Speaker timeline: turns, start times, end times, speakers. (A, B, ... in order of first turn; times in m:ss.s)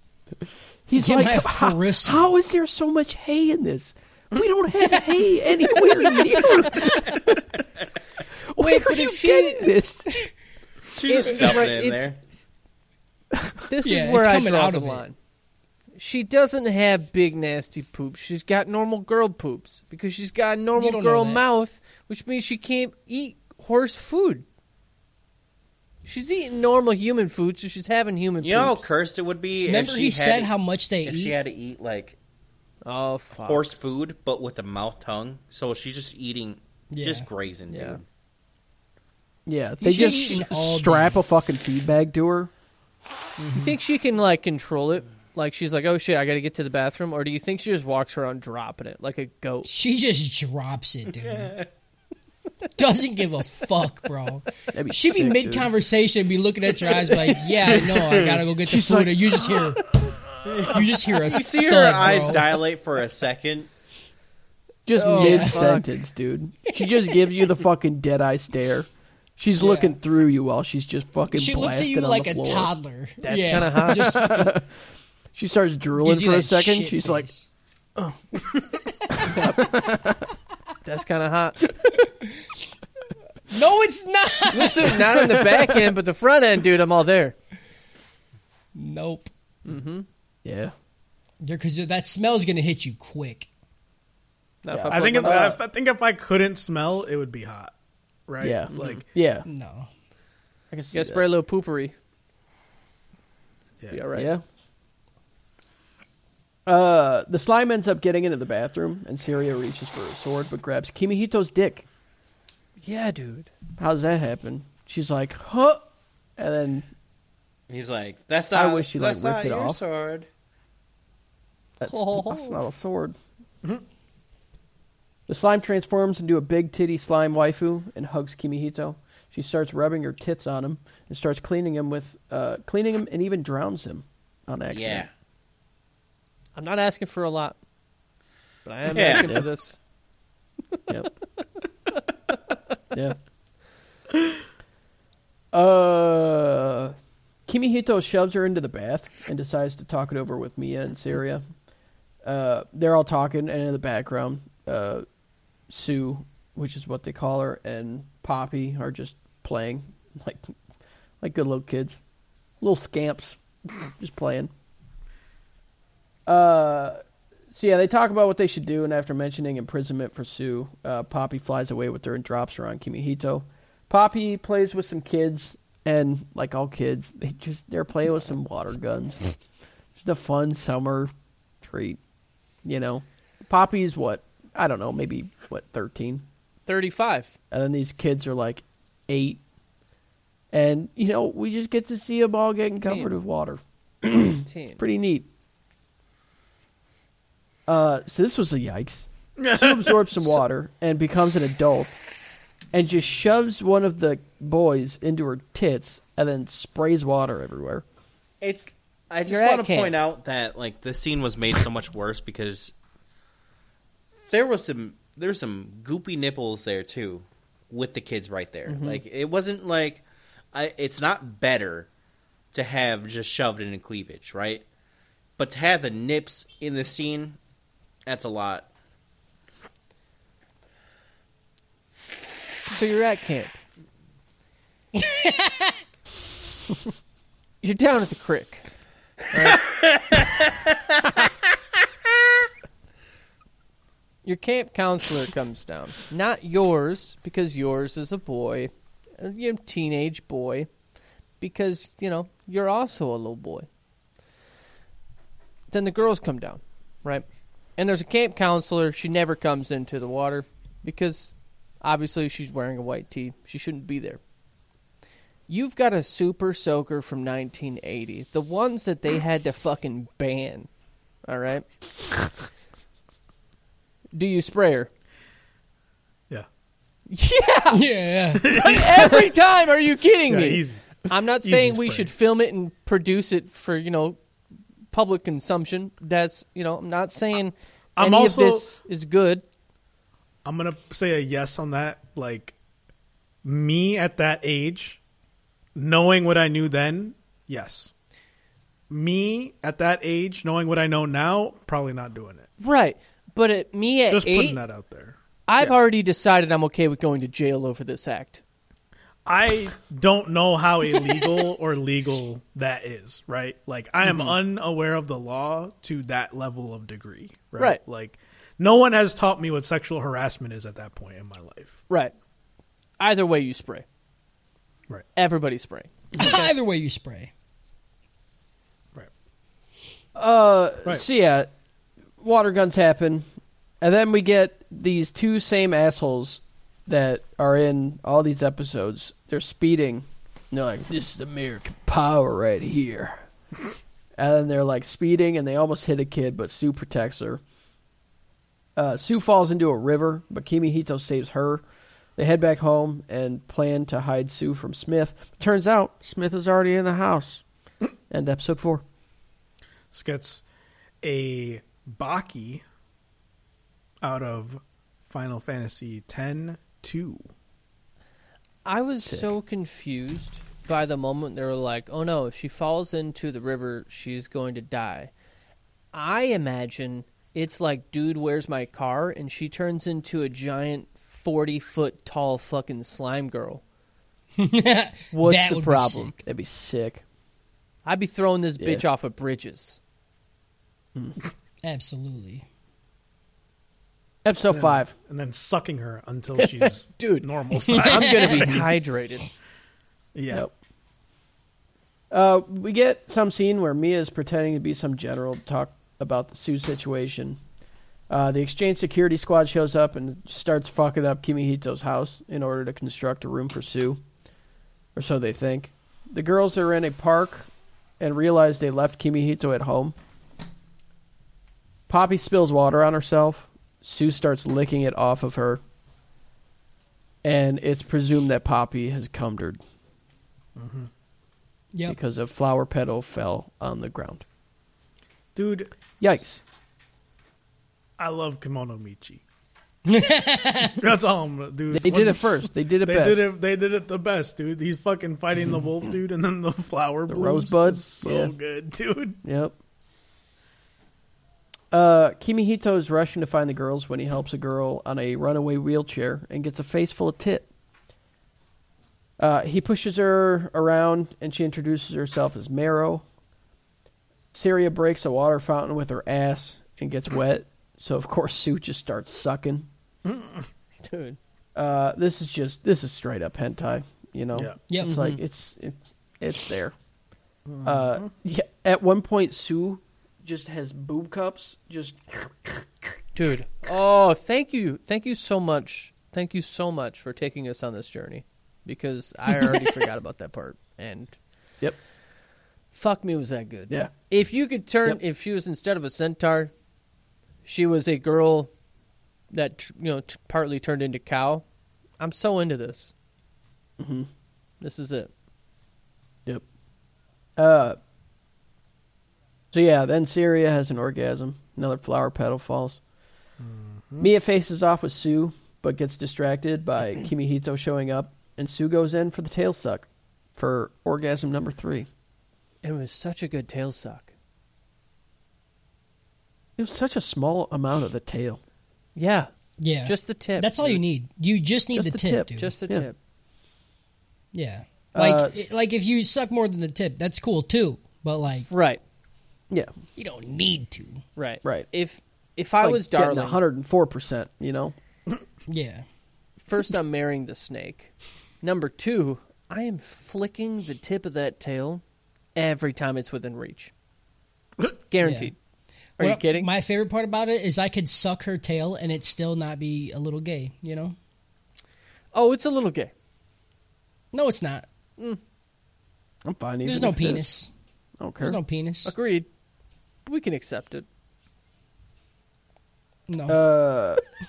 0:00.9-0:07.6 A
0:01.0-0:02.3 B
0:08.5-0:10.1 A
0:08.6-0:09.7 C
0:10.9-0:12.2 D
0:11.1-0:12.2 C
0:13.3-0:13.6 A
0:13.7-0:15.2 C
0:13.8-0:15.0 B
0:16.0-0:24.4 C
0:20.8-0:21.4 B
0:26.0-0:28.9 C
0:28.4-0:30.5 D
0:29.7-0:31.4 B
0:31.0-0:32.2 D
0:32.8-0:33.7 C
0:33.4-0:38.0 D
0:36.9-0:37.3 B
0:37.7-0:38.0 C
0:39.5-0:42.5 A
0:39.8-0:41.2 B
0:43.4-0:43.8 B
0:43.5-0:49.7 C
0:49.6-0:51.6 B
0:51.3-0:51.6 D
0:52.8-0:59.8 B
0:54.7-0:55.7 A
0:58.6-0:59.5 A
1:00.4-1:03.7 D
1:00.7-1:02.6 B
1:04.9-1:12.7 A
1:05.0-1:05.9 C
1:05.0-1:05.8 B
1:09.6-1:10.0 B
1:11.3-1:14.5 B
1:13.2-1:14.2 C
1:13.9-1:14.7 A
1:15.3-1:17.3 A
1:16.0-1:17.5 B
1:19.1-1:20.3 A
1:20.8-1:21.6 C
1:22.1-1:22.6 B
1:23.5-1:25.2 B
1:24.5-1:27.4 C
1:25.3-1:25.7 A
1:28.8-1:29.3 B
1:29.7-1:30.1 C
1:30.4-1:30.7 A
1:31.4-1:33.5 B
1:34.6-1:35.6 C
1:34.7-1:35.6 A
1:34.9-1:37.7 E
1:38.3-1:39.0 E
1:38.4-1:39.5 A
1:38.7-1:39.0 C
1:39.4-1:39.9 B
1:40.7-1:41.2 A
1:40.9-1:41.9 C
1:43.9-1:44.3 C
1:44.1-1:44.4 A
1:46.7-1:51.9 A
1:52.8-1:53.5 C
1:53.8-1:55.9 A
1:56.4-1:56.9 A
1:57.7-2:00.3 D
1:58.5-1:59.8 A
2:01.8-2:03.2 A
2:01.8-2:02.6 C
2:05.3-2:15.1 A
2:14.7-2:15.1 D
2:16.6-2:17.6 C
2:18.6-2:19.8 C
2:18.9-2:19.4 D
2:19.0-2:19.5 A
2:25.5-2:27.0 A
2:27.5-2:31.4 A
2:32.2-2:35.0 A
2:35.7-2:40.5 A
2:41.2-2:42.0 A
2:42.6-2:44.5 A
2:46.3-2:47.0 A
2:47.5-2:59.4 A
3:00.0-3:02.0 A
3:02.6-3:06.3 A
3:06.7-3:07.4 C
3:07.5-3:09.4 A
3:10.5-3:15.3 A
3:12.8-3:13.1 C
3:14.3-3:14.8 C
3:17.7-3:22.0 A
3:19.4-3:20.4 E
3:22.7-3:27.8 A
3:28.4-3:32.7 D
3:29.3-3:30.0 C
3:34.3-3:41.9 D
3:38.7-3:39.0 C
3:42.5-3:44.6 D
3:45.4-3:47.4 D
3:48.1-3:48.7 D
3:52.7-3:53.6 C
3:55.0-3:55.8 B
3:57.6-3:58.7 C
3:59.3-3:59.6 C
3:59.8-4:00.3 D
4:04.2-4:10.7 C
4:11.4-4:13.7 C
4:15.7-4:17.3 C
4:17.8-4:24.2 C
4:25.5-4:30.7 C
4:31.3-4:31.7 C
4:34.1-4:34.9 C
4:37.1-4:37.8 C
4:37.7-4:38.5 B
4:38.4-4:39.3 E
4:38.5-4:44.2 C
4:40.3-4:42.1 E
4:44.9-4:49.4 C
4:48.0-4:48.8 E
4:50.4-4:52.6 E
4:53.4-4:55.0 E
4:55.8-4:57.9 E
4:58.9-5:02.5 E
5:02.6-5:04.6 C
5:04.1-5:05.8 E
5:05.5-5:08.4 C
5:09.3-5:21.8 E
5:14.1-5:14.3 C
5:23.0-5:23.8 C
5:25.2-5:26.5 C
5:26.2-5:27.3 B
5:30.2-5:31.5 A
5:32.2-5:33.2 A
5:33.8-5:43.2 A
5:44.2-5:47.4 A
5:48.8-5:51.6 A
5:52.2-5:57.4 A
5:58.1-5:58.8 A
5:59.9-6:00.4 E
6:01.0-6:02.6 E
6:04.0-6:07.3 E
6:08.6-6:15.1 C
6:15.9-6:23.6 C
6:24.4-6:26.2 B
6:25.1-6:26.2 C
6:26.2-6:27.0 A
6:27.8-6:29.8 C
6:28.6-6:28.8 A
6:31.6-6:32.4 B
6:34.2-6:34.9 A
6:34.5-6:38.7 E
6:36.4-6:39.3 C
6:40.2-6:40.5 E
6:42.1-6:47.4 A
6:48.1-6:54.0 A
6:55.0-7:00.0 A
7:01.9-7:05.6 A
7:07.2-7:09.6 A
7:10.6-7:10.9 E
7:11.9-7:14.2 A
7:15.4-7:15.7 E
7:16.0-7:16.4 A
7:18.0-7:19.2 E
7:19.9-7:20.8 B
7:20.8-7:29.2 E
7:21.7-7:23.3 A
7:27.1-7:28.4 A
7:29.2-7:29.6 A
7:31.7-7:37.5 A
7:39.2-7:43.0 A
7:44.3-7:49.7 A
7:50.0-7:50.5 E
7:50.8-7:51.2 C
7:51.6-7:56.8 A
7:54.3-7:54.6 E
7:54.7-7:55.0 B
7:54.8-7:55.2 C
7:57.5-7:58.1 E
7:57.6-8:02.6 A
8:03.2-8:11.2 C
8:12.7-8:16.5 C
8:17.4-8:18.5 C
8:19.3-8:21.4 C
8:22.0-8:22.9 C
8:23.8-8:24.1 A
8:24.6-8:25.1 C
8:27.4-8:27.8 A
8:29.5-8:32.8 A
8:33.4-8:34.1 E
8:34.0-8:41.9 A
8:42.6-8:44.1 C
8:46.6-8:48.4 A
8:49.0-8:49.3 C
8:49.6-8:52.5 B
8:49.8-8:50.8 C
8:51.7-8:52.9 A
8:52.3-8:53.0 C
8:54.3-8:58.5 B
8:54.9-8:55.4 A
8:58.5-8:58.8 C
9:00.0-9:01.0 B
9:01.2-9:03.4 C
9:02.6-9:04.8 A
9:05.5-9:05.8 B
9:06.4-9:11.8 C
9:12.4-9:13.7 C
9:14.9-9:15.4 C
9:15.0-9:15.3 B
9:16.0-9:16.5 C
9:16.0-9:21.0 B
9:22.1-9:22.9 C
9:24.1-9:24.7 B
9:26.2-9:27.3 A
9:26.6-9:27.5 B
9:28.0-9:28.4 A
9:28.2-9:28.9 B
9:28.8-9:29.3 C
9:30.0-9:30.9 C
9:33.1-9:33.4 B
9:33.3-9:34.0 A